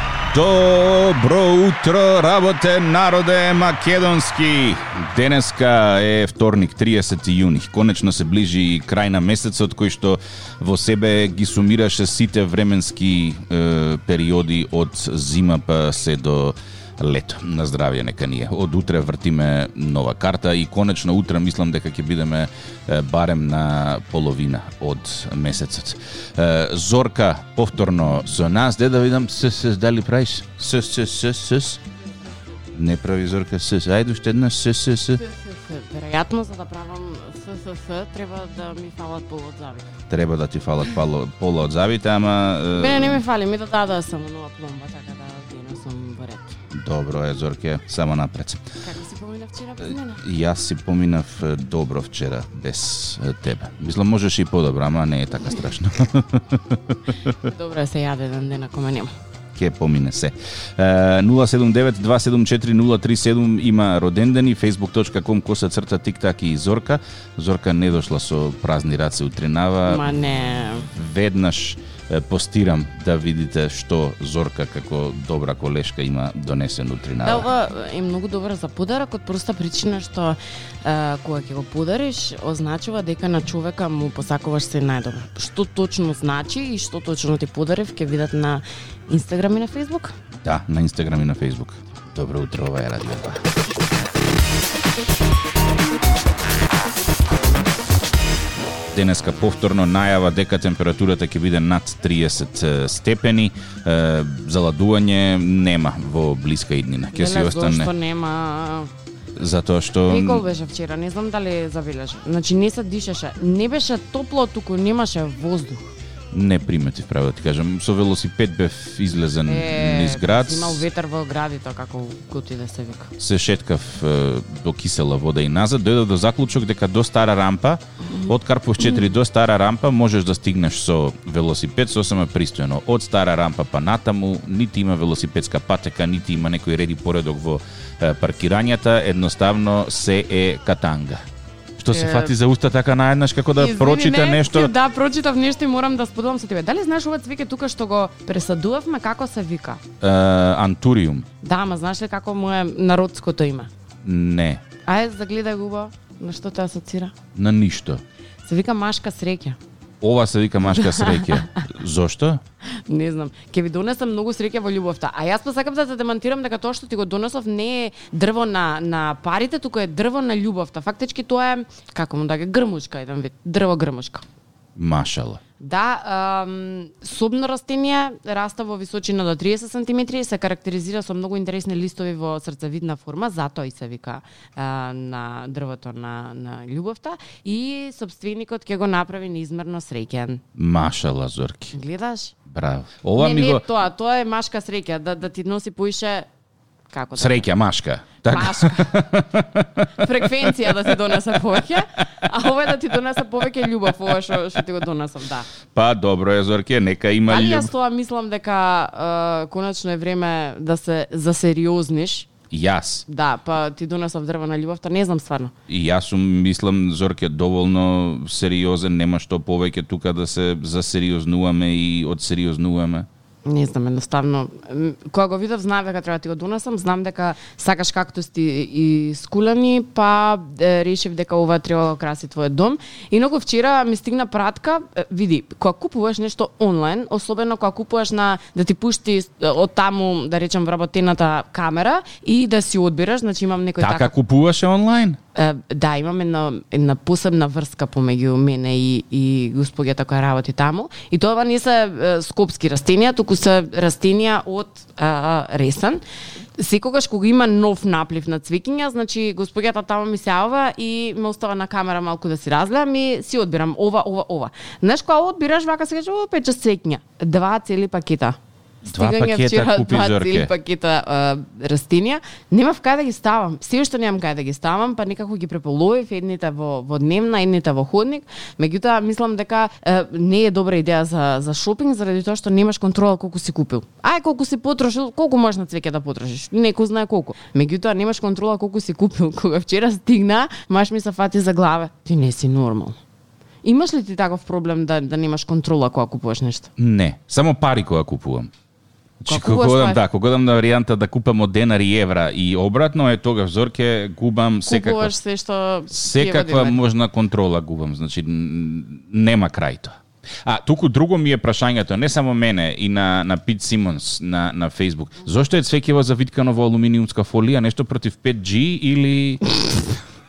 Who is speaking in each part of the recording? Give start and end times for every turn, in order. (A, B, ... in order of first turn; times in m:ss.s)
0:00.3-0:31.8 A
0:32.7-0:35.2 A
0:35.2-0:39.9 B
0:40.1-0:43.2 A
0:42.7-0:46.6 B
0:46.7-0:48.7 A
0:48.8-0:50.2 B
0:50.2-0:57.3 A
0:57.4-0:59.1 B
0:59.6-1:10.1 A
1:09.9-1:10.9 B
1:10.9-1:17.5 A
1:17.2-1:30.1 B
1:30.4-1:33.4 A
1:38.9-1:47.9 A
1:47.1-1:48.9 B
1:49.4-1:50.4 A
1:50.1-1:55.9 B
1:56.3-2:00.8 A
1:59.5-2:03.1 B
2:03.2-2:21.2 A
2:08.0-2:09.1 B
2:21.8-2:24.7 A
2:21.9-2:22.3 B
2:23.6-2:29.8 B
2:30.0-2:31.3 A
2:31.4-2:33.7 B
2:34.0-2:34.6 A
2:34.8-2:37.1 B
2:37.4-2:38.0 A
2:38.5-2:39.6 B
2:40.0-2:42.4 A
2:40.6-2:41.6 B
2:42.9-2:54.2 B
2:54.8-2:55.4 A
2:55.6-3:10.4 B
3:10.6-3:11.7 A
3:11.7-3:12.4 B
3:12.5-3:13.6 A
3:13.2-3:16.3 B
3:16.9-3:17.5 B
3:17.2-3:21.6 A
3:18.2-3:18.9 B
3:19.9-3:25.5 B
3:23.9-3:24.3 A
3:25.7-3:27.7 A
3:27.3-3:32.3 B
3:32.5-3:33.1 A
3:33.1-3:35.5 B
3:35.7-3:43.1 A
3:43.5-4:04.1 B
4:03.8-4:05.2 A
4:05.4-4:16.0 B
4:16.6-4:53.0 B
4:28.9-4:30.5 A
4:53.6-4:56.7 B
4:56.8-4:58.5 A
4:59.2-5:05.2 A
4:59.3-5:00.0 B
5:04.7-5:06.8 B
5:05.9-5:19.8 A